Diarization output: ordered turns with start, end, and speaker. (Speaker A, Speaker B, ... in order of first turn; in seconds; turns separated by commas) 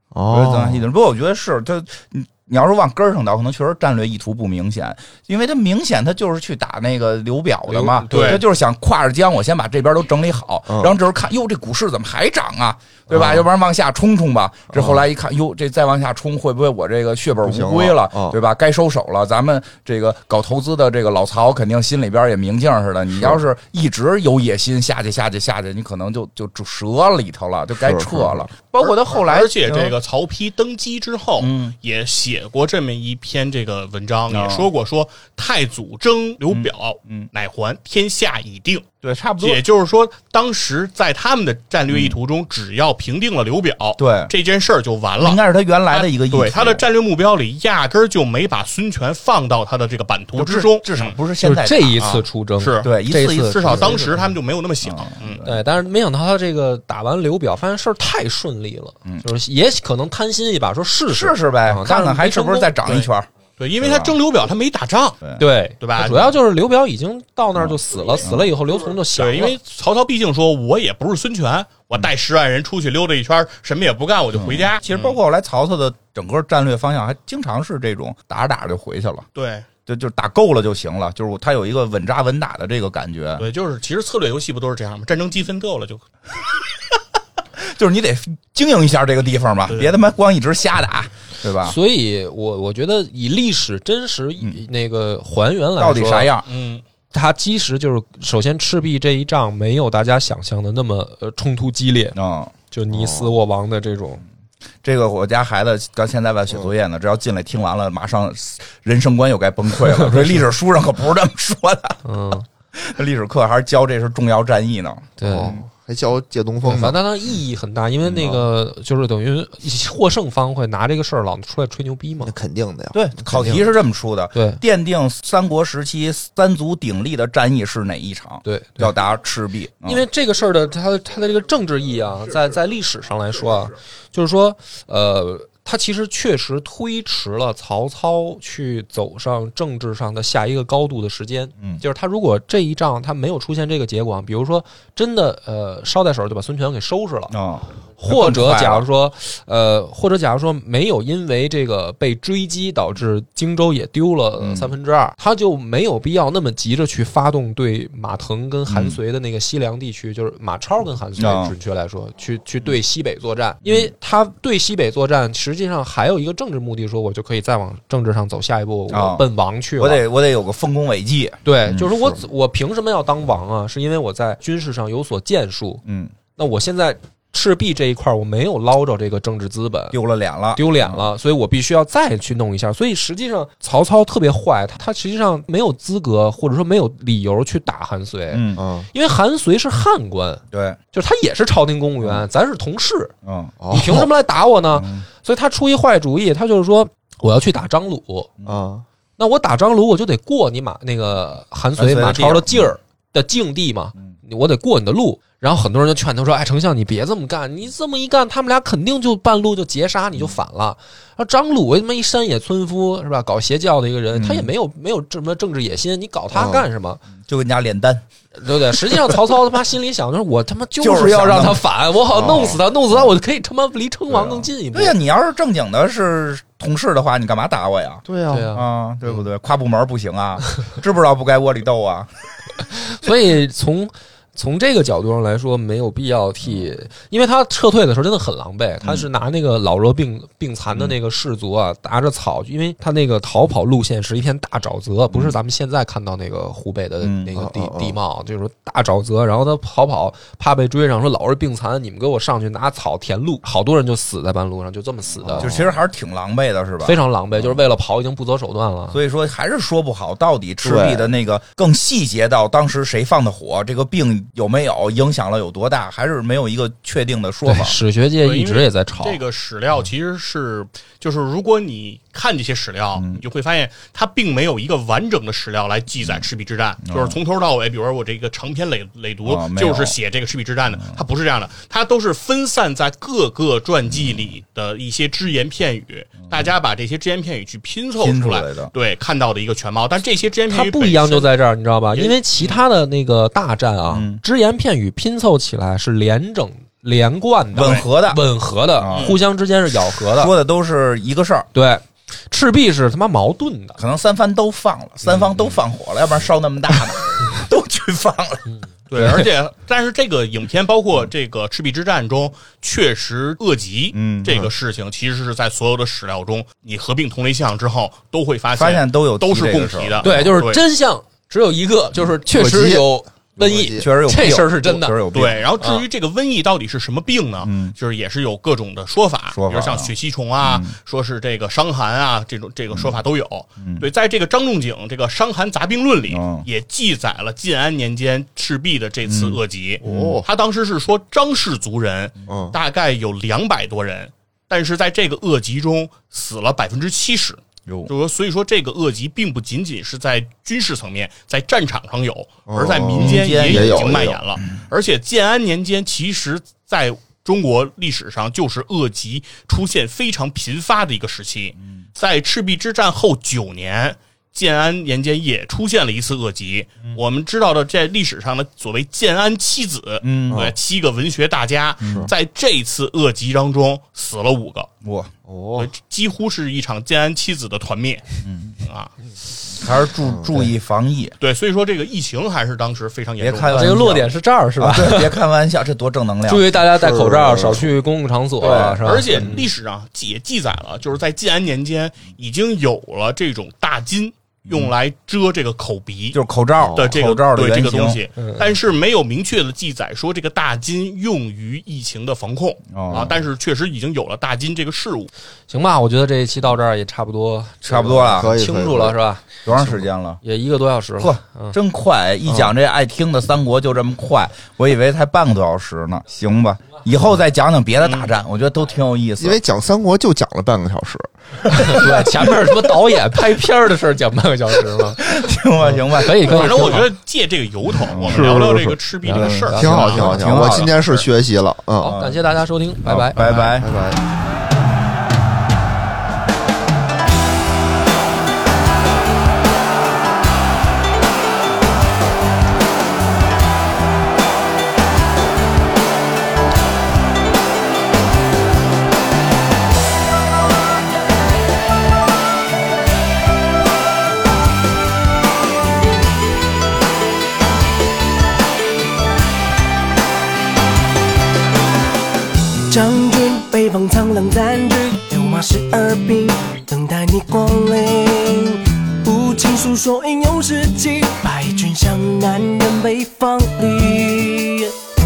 Speaker A: 0.1-0.8, Speaker B: 0.3-29.9, Speaker C: 7.7-8.4, Speaker D: 8.1-8.4, Speaker A: 10.7-10.9, Speaker A: 13.1-13.4, Speaker A: 14.7-15.0, Speaker A: 17.4-18.4, Speaker A: 27.7-28.5, Speaker D: 28.8-38.8, Speaker B: 31.4-31.8, Speaker B: 34.3-34.6, Speaker B: 36.5-37.3, Speaker B: 39.0-39.6, Speaker D: 39.4-51.2, Speaker B: 41.9-42.2, Speaker B: 44.0-44.3, Speaker B: 45.2-46.8, Speaker B: 50.4-52.0, Speaker C: 51.4-54.1, Speaker D: 52.0-55.4, Speaker B: 52.8-54.3, Speaker B: 54.8-55.6, Speaker C: 55.4-62.7, Speaker B: 61.1-63.3, Speaker D: 62.8-65.2, Speaker B: 63.8-64.2, Speaker C: 65.4-69.5, Speaker D: 65.8-66.3, Speaker B: 67.5-68.5, Speaker D: 69.1-75.2, Speaker B: 74.3-79.2, Speaker D: 79.3-79.7, Speaker B: 79.8-83.5, Speaker D: 83.4-86.0, Speaker B: 87.6-91.8, Speaker D: 89.7-90.0, Speaker C: 91.6-96.3, Speaker B: 95.8-96.5, Speaker D: 96.5-96.8, Speaker C: 97.1-102.2, Speaker B: 102.1-102.5, Speaker C: 102.7-104.2, Speaker A: 102.9-103.3, Speaker B: 104.8-112.0, Speaker C: 112.0-112.4, Speaker B: 112.7-115.6, Speaker C: 115.2-115.6, Speaker A: 115.2-117.0, Speaker C: 116.6-122.3, Speaker B: 118.0-118.4, Speaker A: 122.2-123.6, Speaker B: 122.9-130.0, Speaker C: 124.3-124.6, Speaker C: 128.4-128.9, Speaker C: 129.8-147.3, Speaker B: 147.3-148.8, Speaker C: 148.0-170.0, Speaker B: 154.4-154.7, Speaker B: 158.7-159.0, Speaker B: 161.2-161.5, Speaker B: 163.6-163.9, Speaker B: 168.9-169.2, Speaker B: 169.8-171.9, Speaker C: 171.4-175.8, Speaker B: 175.8-176.1, Speaker C: 176.4-180.0, Speaker B: 179.9-181.1, Speaker C: 180.5-190.4, Speaker B: 188.3-188.6, Speaker A: 188.6-188.9, Speaker B: 190.5-190.8, Speaker C: 190.9-193.1, Speaker B: 193.2-193.5, Speaker A: 193.6-194.1, Speaker C: 193.7-198.3, Speaker B: 194.7-195.0, Speaker A: 198.4-198.8, Speaker C: 199.2-217.0, Speaker B: 201.8-202.8, Speaker B: 214.1-214.5, Speaker A: 216.3-216.7, Speaker B: 217.2-218.0, Speaker C: 218.4-224.9, Speaker B: 220.8-221.6, Speaker A: 222.1-222.6, Speaker B: 222.2-222.6, Speaker B: 224.1-232.1, Speaker A: 228.1-228.5, Speaker C: 228.3-229.2, Speaker C: 232.7-255.5, Speaker B: 238.8-239.1, Speaker B: 247.0-247.3, Speaker A: 247.3-247.9, Speaker A: 255.2-255.8, Speaker B: 255.4-257.6, Speaker C: 256.8-259.0, Speaker B: 258.9-267.8, Speaker A: 260.6-261.1, Speaker C: 267.4-269.2, Speaker D: 268.2-291.3, Speaker B: 272.9-273.2, Speaker B: 276.8-277.2, Speaker B: 279.2-280.0, Speaker B: 288.0-288.7, Speaker C: 290.5-300.3, Speaker D: 291.9-292.6, Speaker B: 293.9-294.2, Speaker B: 297.5-298.2, Speaker D: 297.5-297.9, Speaker B: 298.8-299.2, Speaker D: 298.9-299.2, Speaker B: 300.1-301.5, Speaker C: 301.5-303.8, Speaker B: 303.8-308.4, Speaker C: 305.1-305.5, Speaker D: 308.9-320.6, Speaker B: 313.9-314.5, Speaker B: 318.5-320.4, Speaker C: 320.0-325.0, Speaker A: 322.3-322.9, Speaker A: 323.4-323.9, Speaker B: 323.4-325.4, Speaker D: 325.1-374.7, Speaker B: 327.4-327.7, Speaker B: 329.3-330.7, Speaker B: 333.6-333.9, Speaker B: 336.1-336.5, Speaker B: 339.1-340.2, Speaker A: 339.8-340.2, Speaker A: 342.3-342.6, Speaker B: 347.6-347.9, Speaker A: 352.5-354.2, Speaker B: 352.9-354.1, Speaker B: 370.0-370.4, Speaker A: 370.3-370.5, Speaker B: 371.8-372.1, Speaker A: 371.8-372.1, Speaker B: 374.8-375.1, Speaker A: 375.2-375.7, Speaker D: 375.6-378.9, Speaker B: 378.2-378.6, Speaker B: 379.5-381.1, Speaker A: 380.0-380.5, Speaker D: 381.2-383.8, Speaker B: 383.2-386.5, Speaker C: 383.5-385.2, Speaker C: 386.3-389.5, Speaker A: 386.7-387.7, Speaker B: 388.4-389.1, Speaker D: 388.4-405.1, Speaker B: 396.1-398.0, Speaker A: 396.6-396.9, Speaker C: 398.2-398.5, Speaker B: 402.7-403.1, Speaker C: 405.5-409.4, Speaker B: 407.7-408.4, Speaker A: 408.1-408.9, Speaker B: 409.4-410.2, Speaker A: 409.5-409.9, Speaker C: 410.2-411.6, Speaker B: 411.0-419.4, Speaker A: 412.3-412.5, Speaker D: 417.8-418.1, Speaker A: 419.2-421.6, Speaker B: 421.4-422.6, Speaker C: 421.5-426.9, Speaker B: 425.0-426.7, Speaker D: 426.2-431.1, Speaker B: 427.9-428.4, Speaker A: 428.0-431.9, Speaker C: 429.0-430.4, Speaker B: 429.9-430.9, Speaker C: 431.8-433.4, Speaker B: 431.8-432.3, Speaker B: 432.8-433.7, Speaker A: 433.3-434.0, Speaker E: 462.7-474.7